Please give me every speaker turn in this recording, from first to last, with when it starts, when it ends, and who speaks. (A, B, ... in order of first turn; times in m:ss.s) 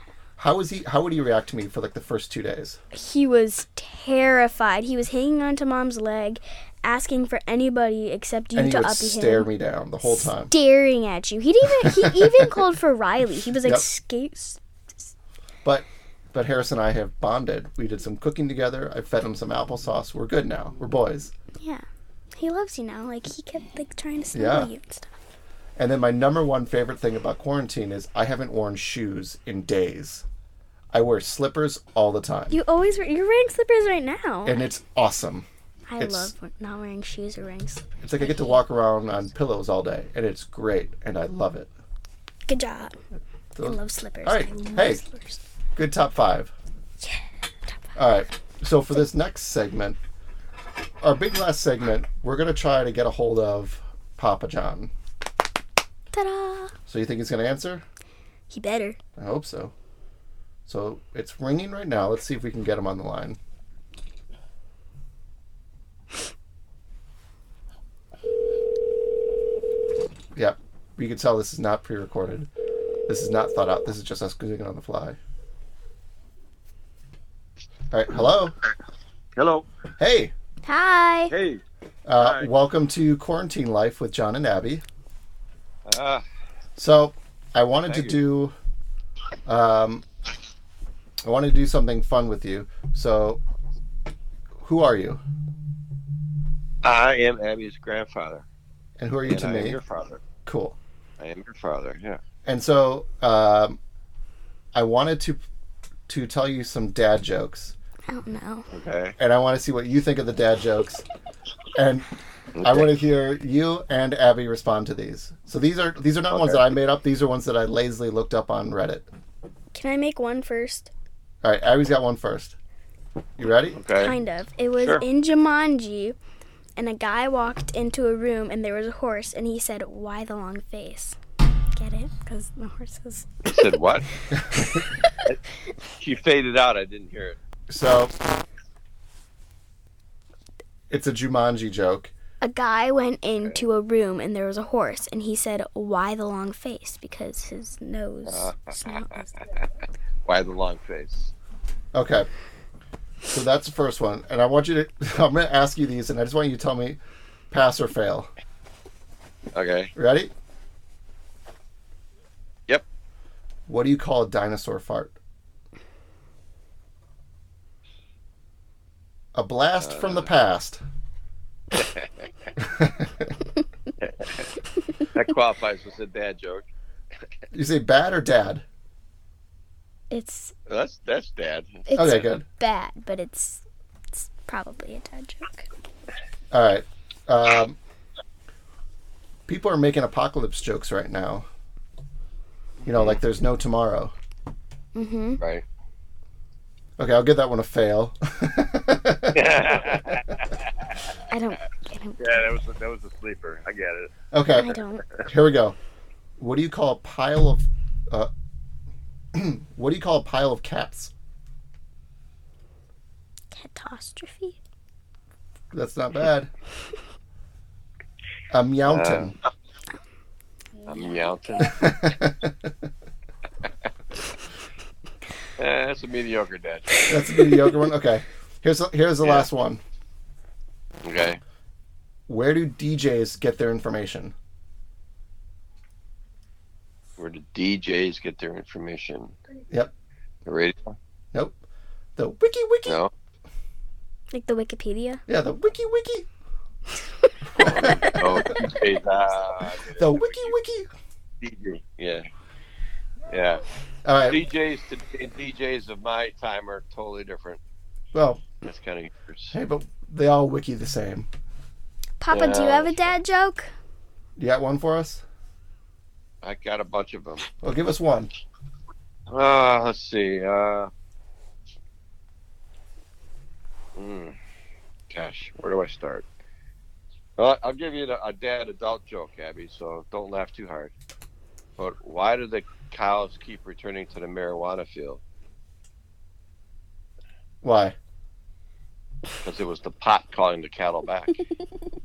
0:00.4-0:02.8 A
0:02.9-0:09.5 B
0:08.6-0:10.5 A
0:10.0-0:15.1 B
0:11.8-0:12.5 A
0:13.5-0:13.9 A
0:15.6-0:21.3 A
0:21.6-0:25.2 B
0:24.3-0:24.7 A
0:25.8-0:30.2 A
0:30.9-0:32.6 A
0:32.5-0:34.6 B
0:34.4-0:35.5 A
0:35.9-0:38.6 B
0:36.0-0:36.3 A
0:38.0-0:41.7 A
0:42.5-0:43.0 B
0:43.6-0:45.0 A
0:43.6-0:45.4 B
0:45.8-0:46.5 A
0:47.0-0:48.0 B
0:48.0-0:50.0 A
0:51.0-0:54.9 A
0:56.1-0:56.7 B
0:56.9-0:57.8 A
0:58.5-0:59.0 B
0:59.2-0:59.7 A
1:00.7-1:03.4 A
1:10.4-1:12.5 A
1:13.1-1:15.2 A
1:17.9-1:18.6 A
1:19.4-1:19.7 C
1:20.0-1:20.3 A
1:20.6-1:21.3 B
1:21.3-1:21.6 C
1:22.1-1:24.8 A
1:22.2-1:22.5 C
1:25.8-1:26.2 C
1:26.8-1:28.6 A
1:27.8-1:28.2 C
1:29.5-1:30.1 A
1:31.2-1:33.4 A
1:34.6-1:35.2 A
1:36.8-1:38.4 C
1:39.0-1:39.8 A
1:39.3-1:40.2 C
1:40.5-1:40.8 A
1:41.2-1:42.2 C
1:42.4-1:43.8 A
1:44.8-1:45.4 A
1:46.1-1:47.7 A
1:48.1-1:48.7 B
1:48.7-1:49.2 C
1:49.2-1:51.1 A
1:51.8-1:52.1 A
1:52.6-1:52.8 C
1:52.6-1:59.1 A
1:56.3-1:56.6 C
1:59.7-2:00.9 B
2:01.4-2:02.6 A
2:03.4-2:03.8 A
2:03.8-2:04.2 C
2:04.0-2:06.2 B
2:04.8-2:05.0 C
2:06.8-2:11.2 B
2:11.7-2:13.6 B
2:13.5-2:14.1 C
2:14.3-2:15.2 B
2:14.4-2:14.7 A
2:16.0-2:17.4 C
2:17.7-2:18.1 A
2:20.9-2:22.1 A
2:22.4-2:29.3 B
2:28.3-2:29.2 C
2:30.2-2:31.3 C
2:31.9-2:32.3 A
2:33.3-2:37.0 A
2:37.5-2:38.3 A
2:39.5-2:39.9 C
2:40.0-2:40.3 A
2:43.7-2:45.2 A
2:49.4-2:50.8 A
2:49.8-2:50.2 C
2:51.7-2:52.1 C
2:52.6-2:53.3 A
2:54.0-2:54.5 C
2:55.1-2:56.7 C
2:57.5-2:58.6 A
3:00.1-3:00.6 B
3:00.7-3:02.1 C
3:01.9-3:05.7 B
3:01.9-3:02.4 A
3:06.5-3:07.8 A
3:09.5-3:11.5 A
3:12.8-3:13.2 C
3:12.9-3:14.1 A
3:15.0-3:15.4 B
3:17.0-3:19.6 A
3:19.3-3:21.0 C
3:21.3-3:22.2 B
3:22.2-3:24.1 C
3:24.3-3:24.7 A
3:24.5-3:25.1 B
3:25.2-3:25.8 A
3:26.4-3:28.3 A
3:29.3-3:31.1 A
3:33.5-3:34.6 B
3:35.7-3:36.5 A
3:38.5-3:39.4 A
3:38.8-3:39.4 C
3:40.9-3:41.9 C
3:41.1-3:41.7 B
3:41.7-3:42.7 A
3:45.6-3:47.1 C
3:47.1-3:49.8 A
3:49.2-3:49.5 C
3:51.0-3:51.4 C
3:52.3-3:54.3 A
3:57.2-3:59.4 C
4:00.5-4:01.0 C
4:01.3-4:01.6 A
4:02.2-4:03.0 A
4:02.8-4:03.1 C
4:04.3-4:05.2 B
4:05.3-4:06.3 A
4:07.2-4:08.4 B
4:07.6-4:08.3 A
4:07.6-4:10.6 C
4:09.9-4:10.9 A
4:11.4-4:12.3 C
4:13.3-4:13.6 C
4:14.0-4:14.4 A
4:14.3-4:17.6 C
4:18.1-4:18.4 A
4:18.6-4:19.6 C
4:19.5-4:21.3 A
4:22.2-4:23.7 B
4:22.3-4:23.2 C
4:24.4-4:25.2 A
4:26.4-4:27.5 C
4:27.6-4:28.3 A
4:29.3-4:30.9 C
4:34.0-4:34.4 C
4:35.1-4:36.3 C
4:37.4-4:40.9 C
4:41.8-4:45.2 C
4:47.6-4:48.0 A
4:49.4-4:51.4 C